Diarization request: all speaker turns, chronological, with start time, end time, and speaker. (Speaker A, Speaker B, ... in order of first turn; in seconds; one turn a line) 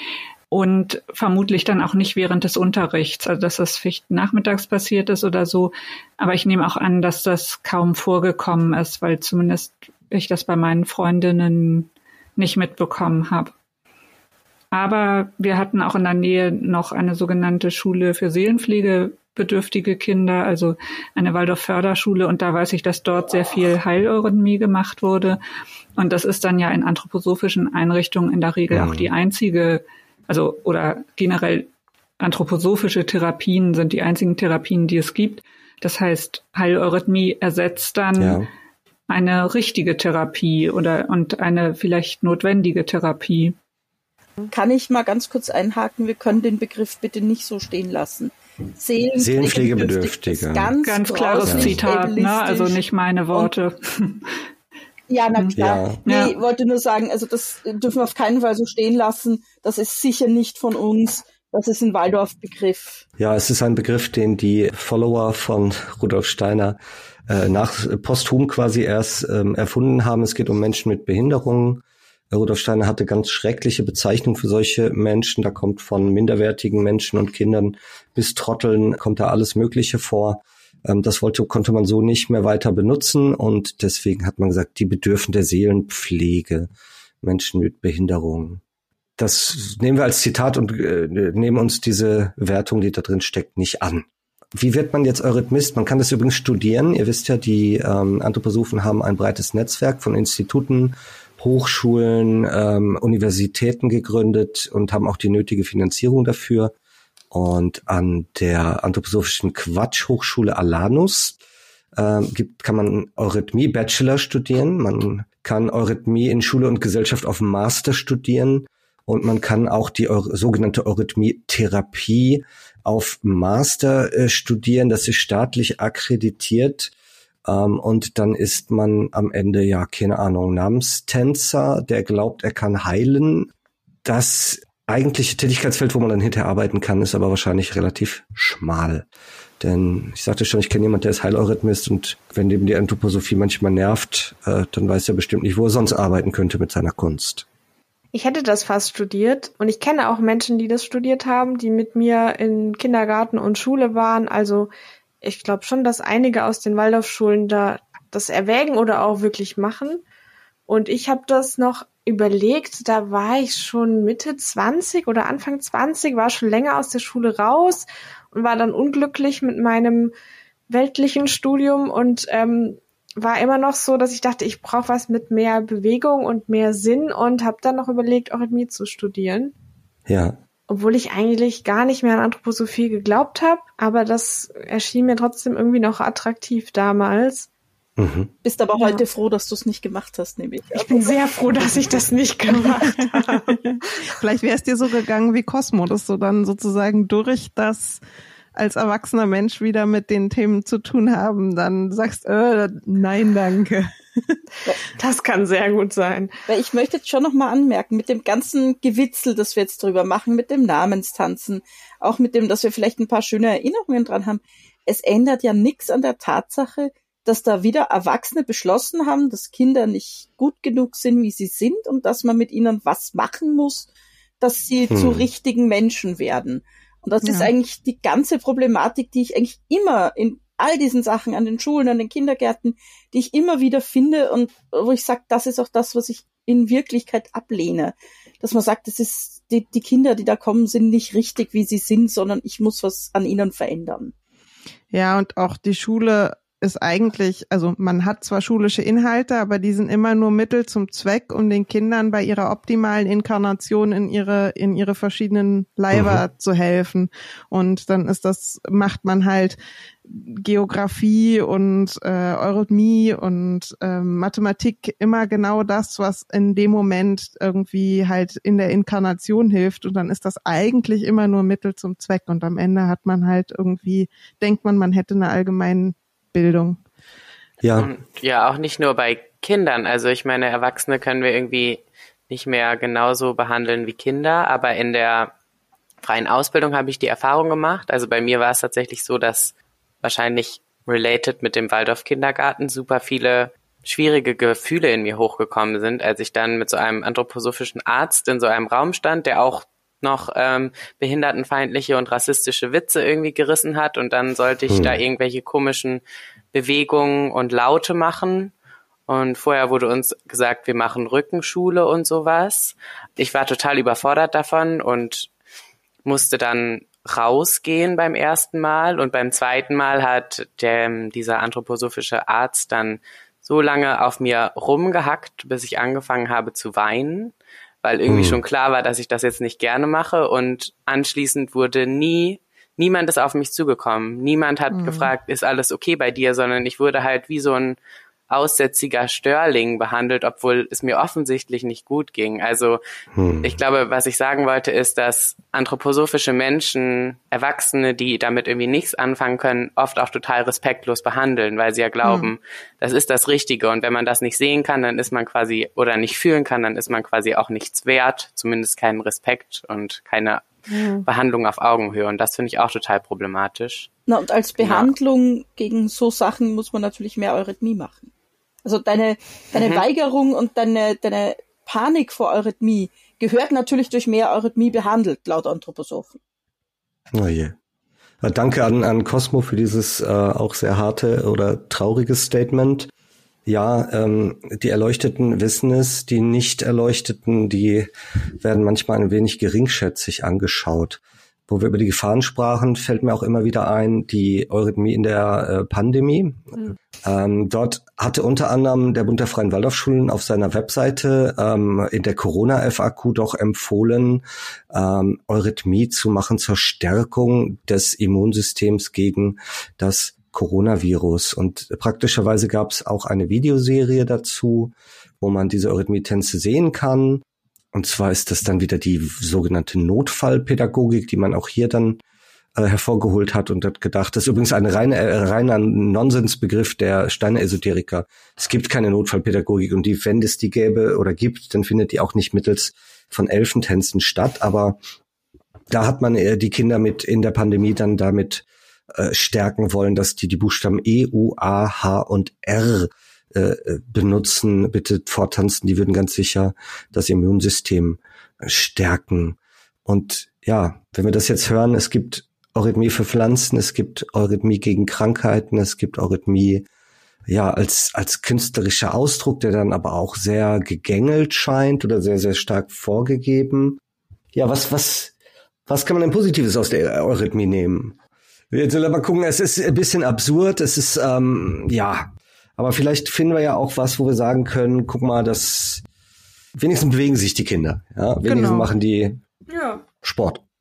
Speaker A: 0.5-13.5
Speaker A: 14.7-25.4
Speaker A: 26.0-38.4
Speaker B: 28.7-29.1
Speaker B: 38.1-38.5
Speaker A: 39.1-43.6
Speaker C: 44.5-52.8
Speaker B: 49.2-50.7
Speaker A: 50.8-54.2
Speaker B: 51.5-51.8
Speaker C: 55.1-63.0
Speaker A: 55.4-56.4
Speaker B: 55.6-56.0
Speaker B: 63.2-86.7
Speaker B: 87.2-88.6
Speaker B: 89.2-106.7
Speaker B: 107.3-111.4
Speaker B: 112.0-126.9
Speaker B: 127.5-133.5
Speaker B: 134.1-139.1
Speaker B: 139.6-147.5
Speaker D: 148.1-160.0
Speaker D: 160.7-170.1
Speaker D: 170.7-179.5
Speaker B: 180.1-180.4
Speaker D: 180.7-187.5
Speaker B: 188.0-188.3
Speaker C: 188.4-192.0
Speaker D: 190.7-194.1
Speaker E: 192.6-198.0
Speaker E: 198.6-204.4
Speaker D: 204.9-206.4
Speaker C: 206.5-223.9
Speaker C: 224.4-244.1
Speaker B: 224.9-225.3
Speaker E: 227.2-227.5
Speaker E: 244.9-276.8
Speaker B: 255.9-256.2
Speaker B: 277.6-277.9
Speaker F: 277.8-285.3
Speaker F: 286.0-306.0
Speaker B: 304.7-305.0
Speaker F: 306.5-308.5
Speaker F: 309.1-315.3
Speaker F: 316.1-337.8
Speaker B: 328.1-328.4
Speaker E: 334.7-335.1
Speaker F: 338.3-342.8
Speaker B: 343.1-343.6
Speaker F: 343.4-360.4
Speaker F: 361.1-363.9
Speaker C: 364.1-368.1
Speaker F: 364.6-364.9
Speaker C: 368.6-376.2
Speaker F: 369.5-369.8
Speaker B: 377.1-377.6
Speaker B: 378.2-382.9
Speaker B: 383.5-422.0
Speaker B: 422.6-434.8
Speaker B: 435.7-456.7
Speaker B: 457.3-463.8
Speaker B: 464.3-465.1
Speaker B: 465.7-468.0
Speaker B: 468.5-475.8
Speaker B: 476.6-479.2
Speaker E: 478.3-478.7
Speaker D: 479.5-479.8
Speaker B: 480.0-480.4